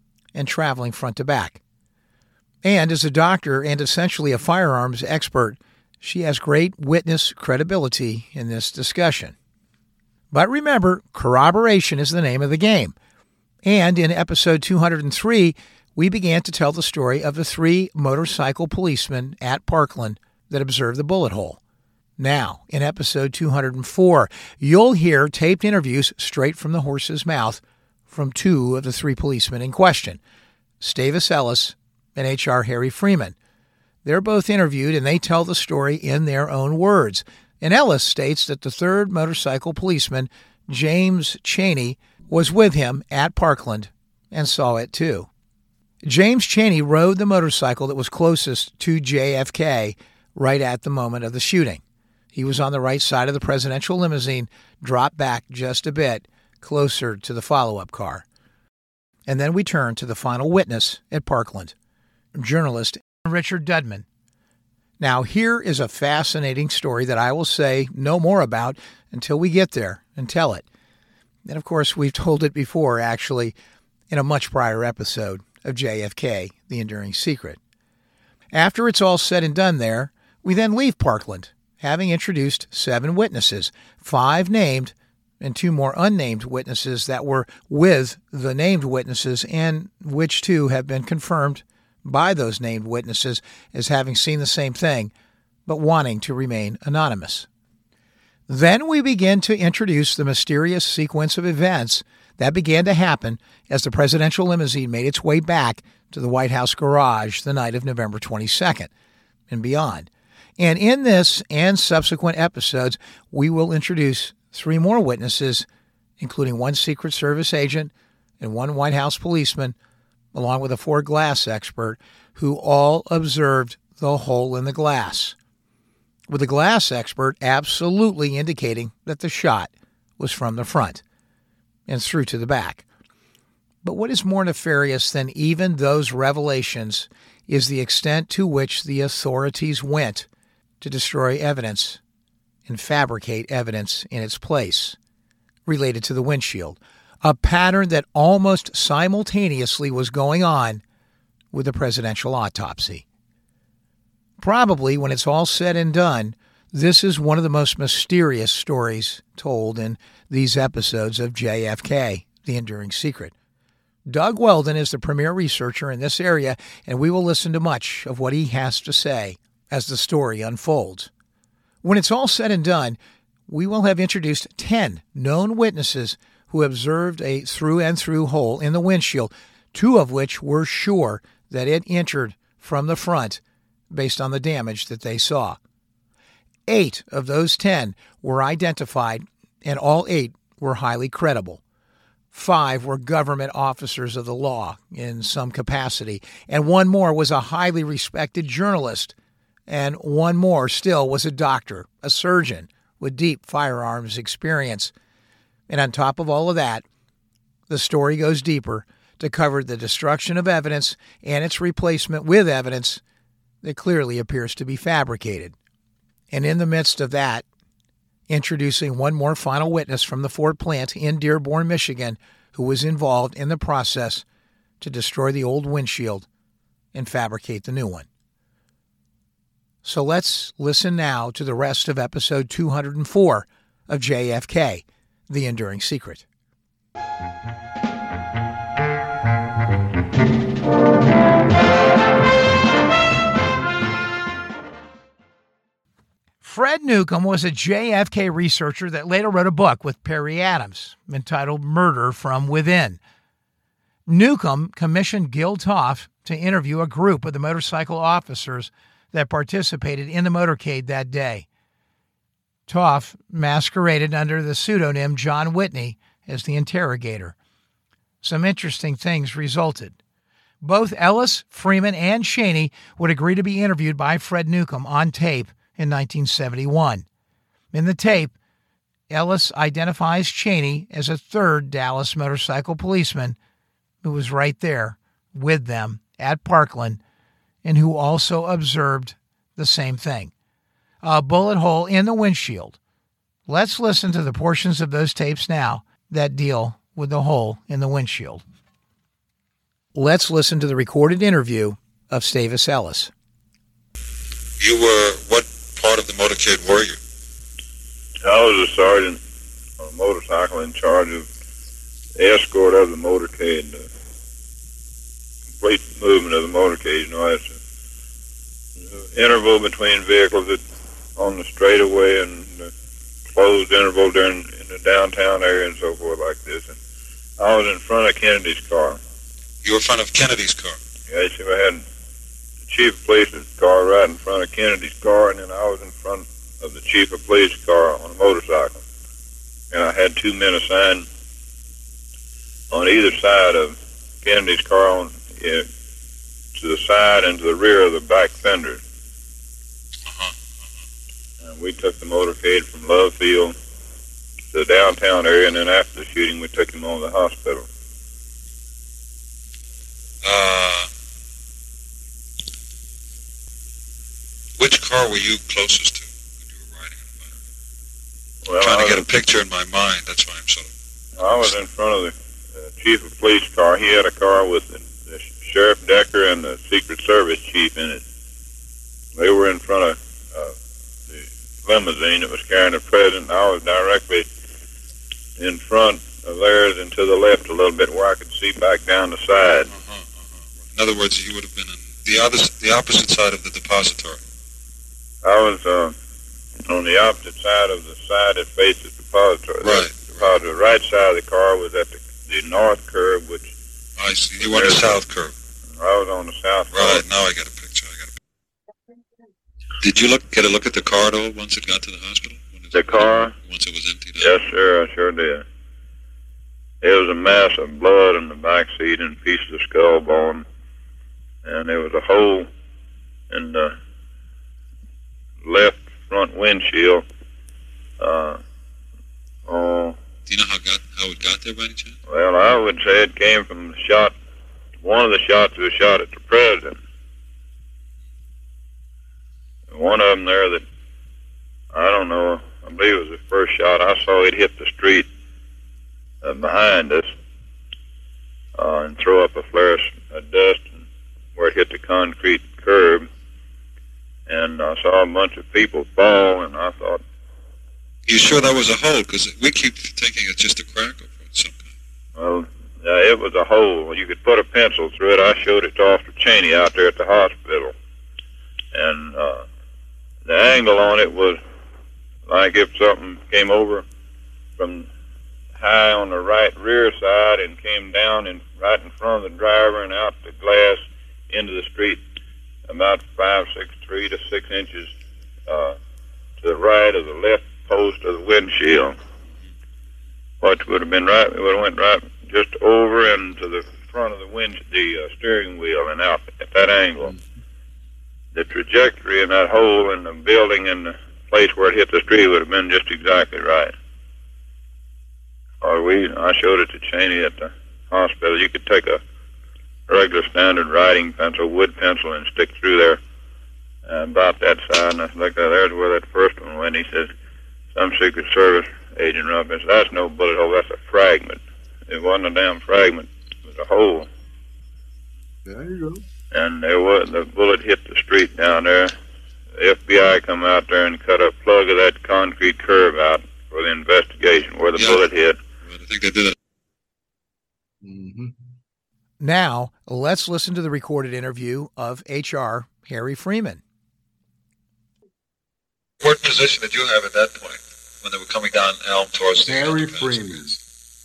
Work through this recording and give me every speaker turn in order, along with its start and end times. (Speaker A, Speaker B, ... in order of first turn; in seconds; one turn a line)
Speaker A: 0.3-1.6
Speaker A: 2.6-9.3
Speaker A: 10.3-12.9
Speaker A: 13.7-21.6
Speaker A: 22.2-30.2
Speaker A: 30.8-33.4
Speaker A: 34.0-45.3
Speaker A: 46.0-51.8
Speaker A: 52.4-58.2
Speaker A: 59.3-61.7
Speaker A: 62.4-64.0
Speaker A: 65.0-70.6
Speaker A: 71.5-73.5
Speaker A: 74.1-77.6
Speaker A: 78.5-95.1
Speaker A: 95.7-97.5
Speaker A: 98.5-108.9
Speaker A: 109.5-115.7
Speaker A: 116.2-119.8
Speaker A: 120.3-125.3
Speaker A: 126.3-131.0
Speaker A: 131.9-132.8
Speaker A: 133.8-140.3
Speaker A: 140.8-142.0
Speaker A: 142.7-145.0
Speaker A: 145.7-150.8
Speaker A: 151.5-153.0
Speaker A: 154.4-163.3
Speaker A: 164.1-171.1
Speaker A: 171.8-185.6
Speaker A: 186.7-191.6
Speaker A: 192.3-199.1
Speaker A: 199.7-204.9
Speaker A: 205.7-206.8
Speaker A: 207.7-213.0
Speaker A: 213.6-215.6
Speaker A: 216.3-217.4
Speaker A: 218.3-224.2
Speaker A: 224.8-226.3
Speaker A: 226.9-228.1
Speaker A: 229.8-236.2
Speaker A: 246.4-253.0
Speaker A: 254.1-261.4
Speaker A: 262.7-267.4
Speaker A: 268.2-270.0
Speaker A: 270.6-277.1
Speaker A: 277.7-278.3
Speaker A: 279.1-283.4
Speaker A: 284.0-287.0
Speaker A: 287.6-290.3
Speaker A: 291.0-292.8
Speaker A: 293.5-298.4
Speaker A: 299.9-303.1
Speaker B: 304.6-307.0
Speaker C: 308.2-309.2
Speaker C: 309.8-311.3
Speaker C: 312.1-313.8
Speaker C: 315.5-317.6
Speaker C: 318.9-320.6
Speaker C: 321.2-322.7
Speaker C: 323.3-326.8
Speaker C: 327.4-329.0
Speaker B: 329.6-330.8
Speaker C: 331.1-331.8
Speaker C: 332.7-338.8
Speaker C: 339.7-341.1
Speaker C: 342.7-345.7
Speaker C: 346.6-348.8
Speaker B: 350.1-350.3
Speaker C: 351.4-353.6
Speaker C: 354.5-357.7
Speaker B: 360.2-360.9
Speaker B: 364.6-367.3
Speaker C: 368.4-369.0
Speaker B: 368.6-370.7
Speaker C: 371.2-378.0
Speaker C: 379.1-380.6
Speaker C: 381.1-384.3
Speaker C: 385.4-389.7
Speaker B: 389.7-394.2
Speaker C: 395.2-395.9
Speaker C: 396.6-403.5
Speaker B: 399.6-400.3
Speaker B: 404.0-405.3
Speaker C: 404.4-405.0
Speaker C: 405.8-407.1
Speaker B: 406.7-408.1
Speaker B: 409.8-414.3
Speaker C: 412.7-413.3
Speaker C: 414.2-415.4
Speaker C: 416.8-420.4
Speaker C: 421.4-422.5
Speaker C: 423.3-423.8
Speaker C: 425.4-427.1
Speaker C: 428.0-428.4
Speaker C: 429.4-430.0
Speaker B: 430.3-431.9
Speaker C: 432.1-434.1
Speaker C: 434.8-436.8
Speaker C: 439.7-440.6
Speaker C: 441.7-445.1
Speaker C: 446.2-447.1
Speaker C: 448.6-450.8
Speaker C: 451.4-453.1
Speaker C: 454.3-457.0
Speaker B: 458.1-461.6
Speaker C: 462.2-467.7
Speaker C: 468.7-469.5
Speaker C: 470.2-471.4
Speaker C: 472.3-473.9
Speaker C: 474.6-474.9
Speaker C: 475.6-482.0
Speaker C: 482.7-484.9
Speaker C: 485.5-485.8
Speaker C: 486.4-488.9
Speaker C: 490.4-497.1
Speaker C: 498.3-503.7
Speaker C: 505.6-509.0
Speaker C: 509.9-513.0
Speaker C: 513.9-517.1
Speaker C: 517.7-524.1
Speaker D: 525.5-526.0
Speaker C: 526.3-528.9
Speaker C: 529.5-535.4
Speaker B: 534.8-535.0
Speaker B: 535.6-536.4
Speaker D: 537.8-538.4
Speaker A: 539.2-543.6
Speaker B: 546.0-550.4
Speaker D: 549.4-550.6